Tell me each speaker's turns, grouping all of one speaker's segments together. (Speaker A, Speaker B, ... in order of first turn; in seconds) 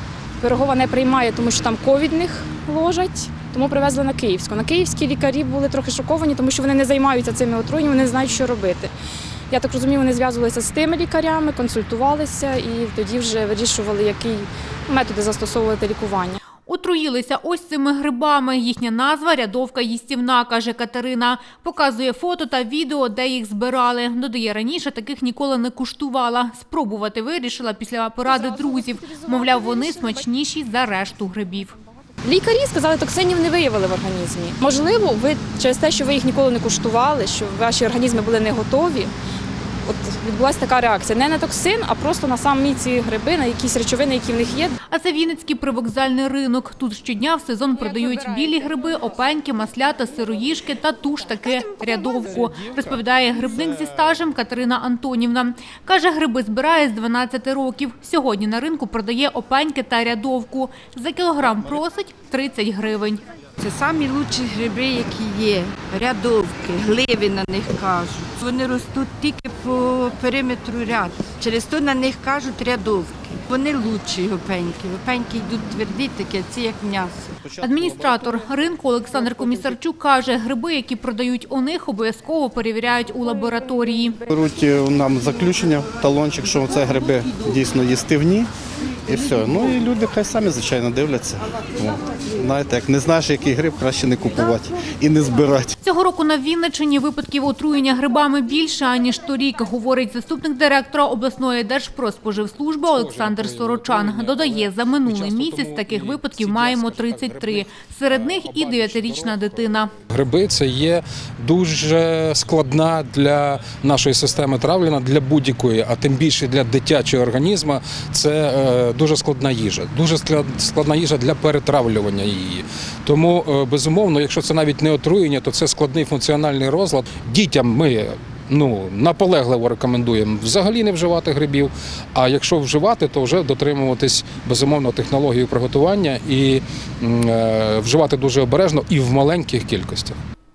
Speaker A: 0.4-8.9, 9.5-16.4, 28.2-30.3, 31.7-39.1, 39.9-44.8
Speaker B: 16.6-31.7, 44.9-63.2, 77.6-84.2, 95.8-109.9
Speaker C: 51.8-53.2, 102.8-140.2
Speaker D: 63.6-77.3
Speaker E: 77.4-78.4, 84.3-88.5, 89.0-95.7